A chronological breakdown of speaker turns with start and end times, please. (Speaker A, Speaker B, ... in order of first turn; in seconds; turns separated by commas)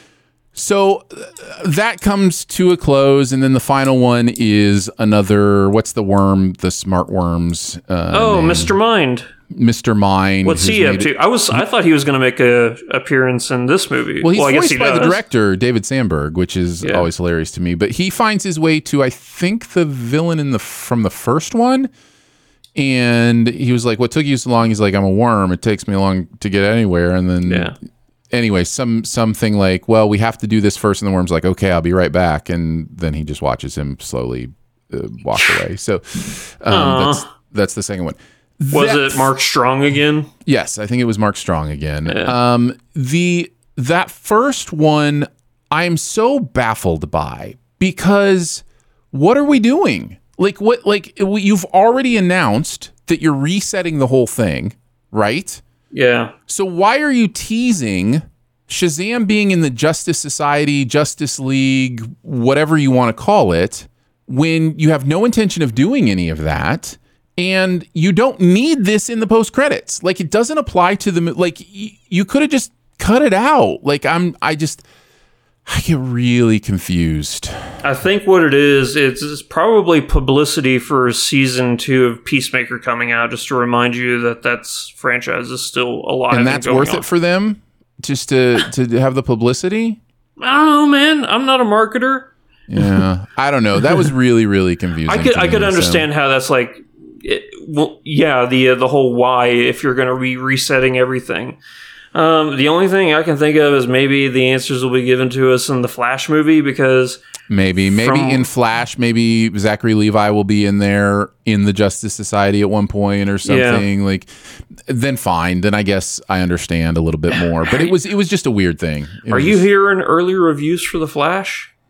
Speaker A: 0.5-8.8, Speaker B: 8.1-9.3, Speaker A: 9.5-11.6, Speaker B: 10.4-15.2, Speaker A: 14.2-21.9, Speaker B: 16.8-17.1, Speaker A: 22.8-27.7, Speaker B: 27.4-27.8, Speaker A: 28.3-39.3, Speaker B: 36.7-37.2, Speaker B: 38.7-40.3, Speaker A: 40.5-55.6, Speaker B: 42.0-42.3, Speaker B: 55.9-56.3, Speaker A: 56.5-74.8, Speaker A: 75.7-77.7, Speaker B: 77.8-87.0, Speaker A: 86.3-90.0, Speaker B: 90.4-93.0, Speaker A: 92.7-96.1, Speaker B: 95.0-101.6, Speaker B: 102.1-107.2, Speaker A: 107.5-119.6, Speaker B: 107.9-108.5, Speaker B: 113.4-113.8, Speaker B: 119.3-121.7